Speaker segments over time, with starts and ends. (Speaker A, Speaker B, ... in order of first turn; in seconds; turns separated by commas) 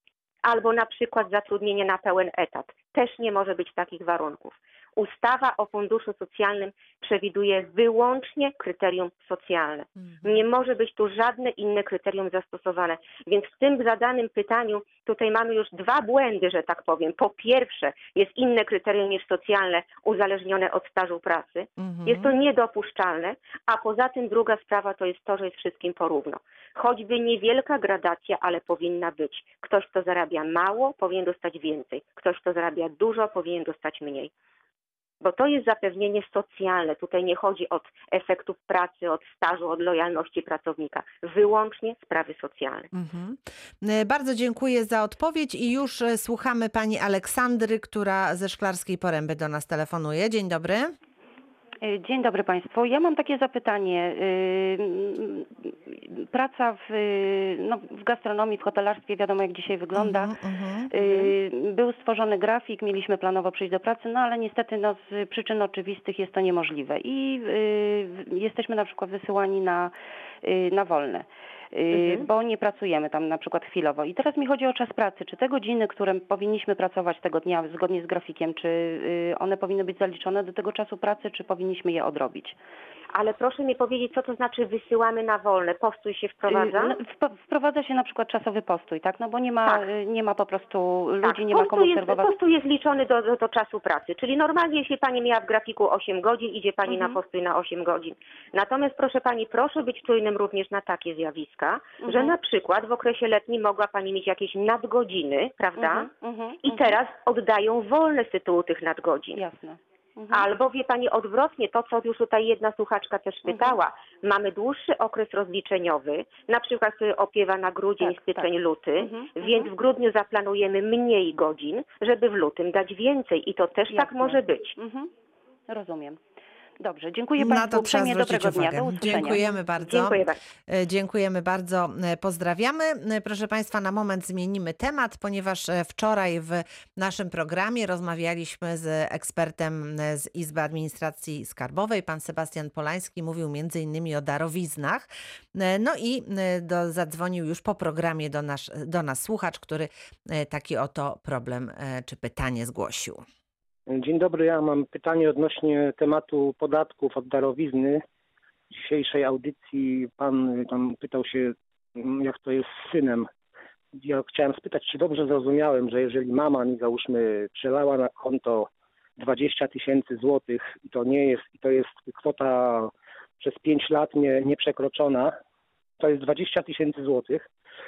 Speaker A: 0.4-34.3, Speaker B: 21.8-22.3, Speaker A: 35.2-42.9, Speaker B: 42.9-50.9, Speaker C: 51.8-60.3, Speaker B: 60.0-60.9, Speaker C: 60.9-82.6, Speaker A: 71.9-72.2, Speaker A: 83.1-87.0, Speaker C: 86.5-92.3, Speaker A: 91.2-106.1, Speaker C: 96.9-97.2, Speaker C: 102.0-102.3, Speaker C: 105.8-107.0, Speaker A: 106.6-109.4, Speaker C: 109.3-110.5, Speaker A: 110.3-124.8, Speaker C: 113.5-113.8, Speaker C: 118.0-119.7, Speaker C: 123.9-125.1, Speaker C: 125.7-126.2, Speaker C: 126.8-129.8, Speaker B: 127.4-153.2, Speaker A: 129.8-130.4, Speaker D: 153.9-158.0, Speaker D: 158.7-163.3, Speaker D: 163.9-175.3, Speaker D: 176.0-177.5